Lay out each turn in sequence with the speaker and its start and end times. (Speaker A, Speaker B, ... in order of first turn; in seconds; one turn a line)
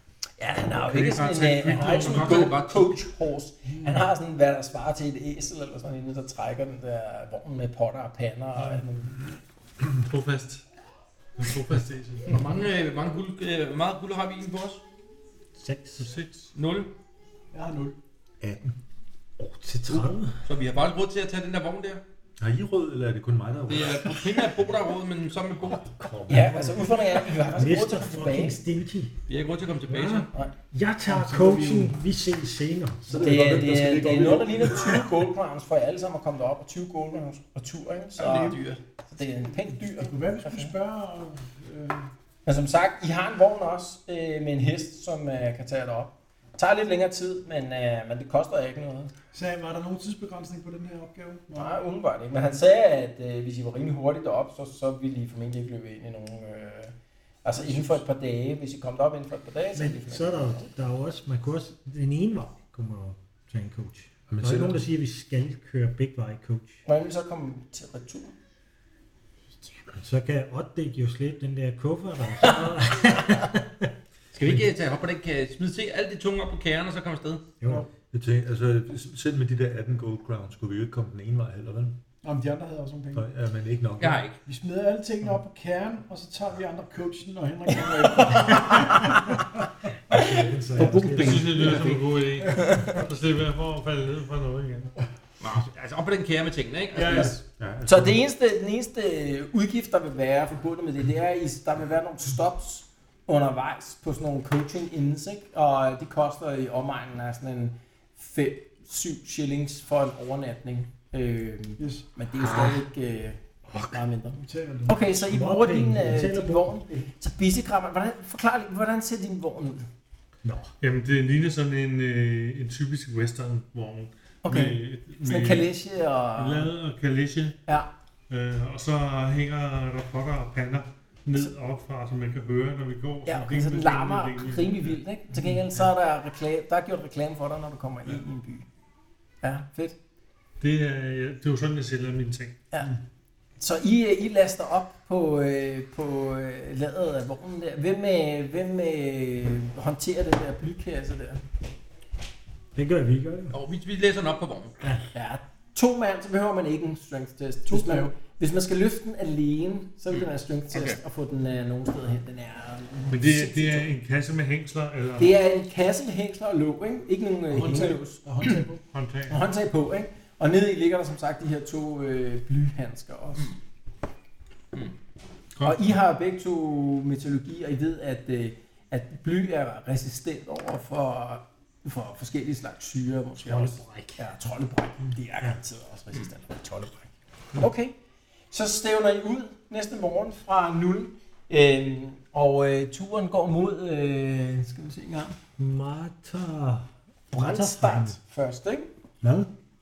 Speaker A: 0.4-9.1
Speaker B: 0.7-3.0
Speaker C: 0.9-2.5
Speaker D: 3.7-4.0
Speaker C: 9.8-10.6
Speaker C: 11.4-12.4
Speaker B: 12.3-14.8
Speaker E: 15.6-16.1
Speaker C: 16.0-16.5
Speaker B: 16.5-16.9
Speaker D: 17.5-17.9
Speaker F: 18.4-18.7
Speaker E: 19.4-20.4
Speaker B: 20.4-22.0
Speaker F: 22.4-24.4
Speaker B: 23.7-26.1
Speaker F: 26.0-26.7
Speaker A: 26.3-28.6
Speaker E: 26.3-26.7
Speaker E: 27.5-29.1
Speaker B: 29.3-30.3
Speaker E: 29.9-33.9
Speaker D: 31.1-32.0
Speaker F: 33.1-35.1
Speaker A: 33.2-40.7
Speaker B: 38.2-38.8
Speaker D: 39.9-42.1
Speaker A: 42.5-49.1
Speaker D: 49.3-51.8
Speaker A: 51.5-60.7
Speaker E: 59.7-66.8
Speaker F: 64.3-64.8
Speaker A: 66.8-68.3
Speaker E: 69.9-73.9
Speaker B: 74.3-77.5
Speaker F: 78.1-82.0
Speaker D: 82.2-83.3
Speaker F: 83.1-84.2
Speaker B: 84.0-84.3
Speaker D: 84.4-89.2
Speaker A: 88.1-89.1
Speaker E: 90.1-91.7
Speaker A: 90.1-92.0
Speaker F: 90.2-91.0
Speaker C: 91.0-94.9
Speaker A: 92.6-92.9
Speaker B: 95.4-97.4
Speaker A: 97.0-119.9
Speaker F: 97.5-98.2
Speaker D: 111.8-112.0
Speaker D: 114.3-115.1
Speaker E: 115.1-116.7
Speaker E: 120.4-120.7
Speaker C: 120.8-125.7
Speaker A: 124.4-126.7
Speaker C: 126.3-127.6
Speaker C: 128.3-135.0
Speaker A: 133.2-138.7
Speaker A: 139.4-139.9
Speaker C: 140.6-142.6
Speaker A: 143.6-151.4
Speaker E: 152.7-153.6
Speaker B: 153.5-154.9
Speaker A: 155.1-163.9
Speaker D: 157.7-158.1
Speaker B: 160.1-161.0
Speaker C: 163.1-165.4
Speaker A: 165.2-168.7
Speaker D: 167.5-168.8
Speaker C: 168.9-169.4
Speaker A: 169.3-173.6
Speaker B: 175.6-175.9
Speaker A: 175.6-187.9
Speaker E: 183.4-184.2
Speaker A: 188.5-195.3
Speaker E: 195.6-198.2
Speaker A: 197.3-198.9
Speaker E: 199.2-199.5